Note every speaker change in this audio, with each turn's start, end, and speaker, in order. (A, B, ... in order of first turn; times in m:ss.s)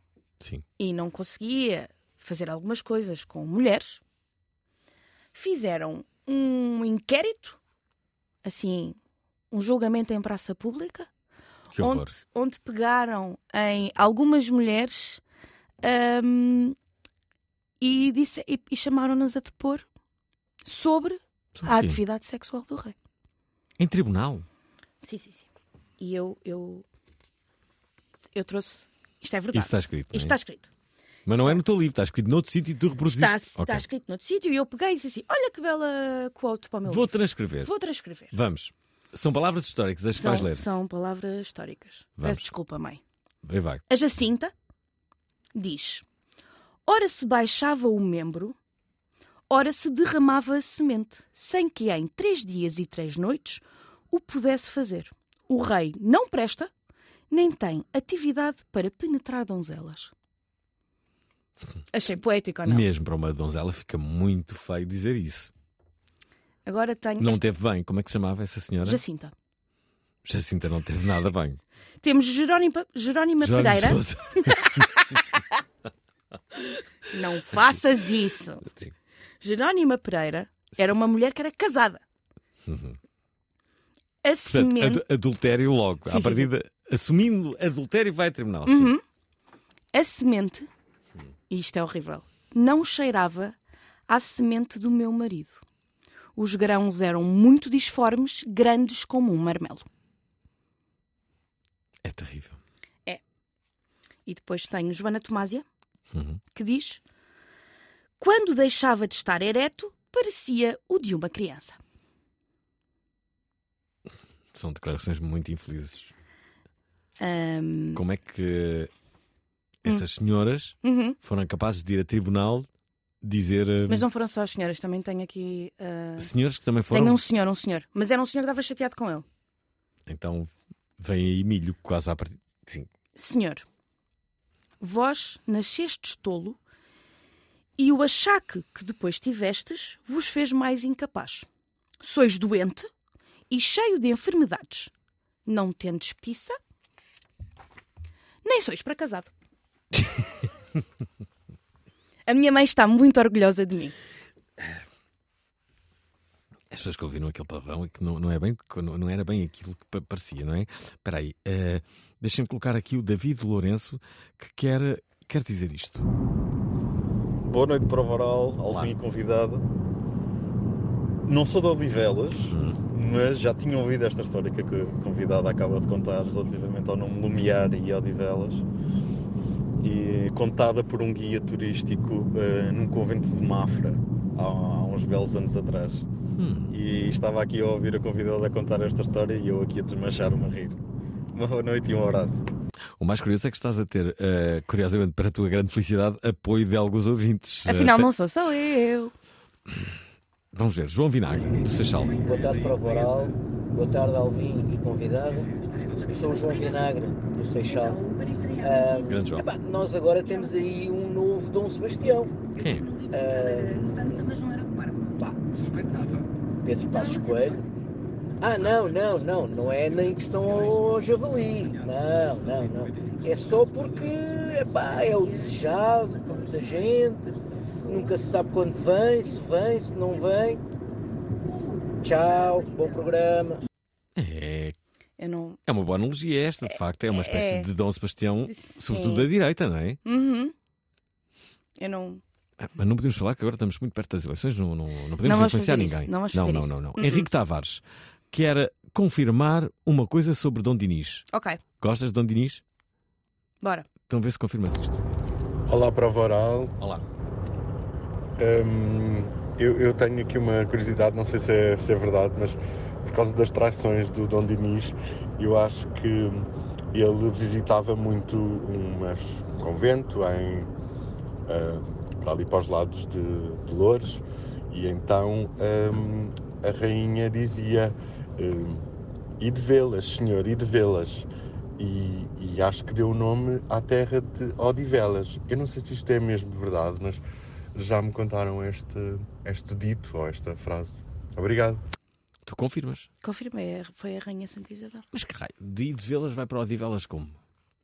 0:00.4-0:00.6 A
0:00.8-0:04.0 B
0:05.3-0:07.6 B
0:08.4-0:09.0 B
0:09.5-0:11.1 B
0:11.7-0:12.1 A
0:11.8-0:15.2 B
0:15.8-0:16.8 B
0:17.8-0:19.8 B
0:20.6-0:22.9 B
0:21.6-0:22.0 A
0:23.8-0:24.4 A
0:25.0-0:25.5 B
0:26.0-0:26.8 B
0:28.3-0:30.7 B
0:29.5-0:30.4 A
0:31.2-0:33.8 A
0:33.0-0:38.3 B
0:36.8-0:37.7 A
0:38.3-0:40.6 A
0:40.1-0:43.0 B
0:42.2-0:42.5 A
0:43.4-0:43.8 A
0:43.9-0:44.5 B
0:45.5-0:46.0 B
0:46.8-0:48.6 B
0:49.5-0:56.7 B
0:57.3-1:00.1 B
1:01.9-1:02.8 B
1:02.6-1:05.5 A
1:06.6-1:07.4 B
1:07.2-1:09.0 A
1:08.8-1:09.3 B
1:10.2-1:11.6 A
1:12.0-1:15.2 B
1:13.4-1:14.9 A
1:17.1-1:18.7 B
1:18.6-1:18.9 A
1:19.4-1:22.0 B
1:22.6-1:23.0 A
1:24.2-1:25.0 B
1:24.4-1:28.9 A
1:26.0-1:26.5 B
1:28.6-1:29.0 B
1:29.9-1:30.7 B
1:31.5-1:33.5 B
1:34.1-1:35.6 B
1:36.4-1:39.8 B
1:42.0-1:42.6 A
1:44.2-1:45.6 B
1:46.1-1:46.4 A
1:46.5-1:47.0 B
1:48.2-1:51.8 B
1:54.5-1:56.1 A
1:57.2-1:58.0 B
1:57.9-1:58.9 A
1:59.8-2:02.7 A
2:00.8-2:01.2 B
2:03.2-2:04.1 A
2:03.9-2:06.3 B
2:06.2-2:07.2 A
2:06.9-2:09.2 B
2:10.1-2:12.9 A
2:13.1-2:13.6 B
2:14.8-2:16.6 B
2:17.8-2:21.5 B
2:22.0-2:22.9 B
2:23.5-2:24.9 B
2:25.4-2:26.6 B
2:28.4-2:29.3 B
2:32.3-2:33.9 B
2:34.6-2:34.8 A
2:36.7-2:46.0 A
2:47.4-2:49.6 C
2:51.3-2:58.6 C
2:52.5-2:52.8 A
2:59.8-3:06.0 C
3:06.4-3:06.8 A
3:06.7-3:10.8 C
3:11.3-3:12.4 C
3:13.0-3:18.1 A
3:17.6-3:19.1 B
3:20.5-3:22.2 A
3:22.1-3:25.5 D
3:26.1-3:32.4 D
3:29.0-3:29.4 A
3:32.6-3:32.9 A
3:33.0-3:34.3 D
3:35.2-3:36.0 D
3:36.6-3:37.6 D
3:38.4-3:47.3 D
3:47.8-3:50.6 D
3:52.0-3:53.6 D
3:54.2-3:54.8 A
3:55.2-3:55.6 B
3:55.7-4:00.0 A
3:56.7-3:57.7 B
3:58.5-3:59.3 B
4:00.0-4:00.5 B
4:01.8-4:02.2 B
4:02.6-4:11.3 A
4:05.2-4:07.3 B
4:11.3-4:11.6 B
4:11.8-4:12.6 A
4:13.6-4:13.9 B
4:14.1-4:15.0 A
4:15.7-4:16.7 E
4:18.4-4:30.7 E
4:31.5-4:38.8 E
4:39.4-4:41.3 E
4:41.8-4:47.2 E
4:47.7-4:51.8 E
4:52.4-4:53.1 A
4:53.2-4:55.0 B
4:55.1-4:57.4 A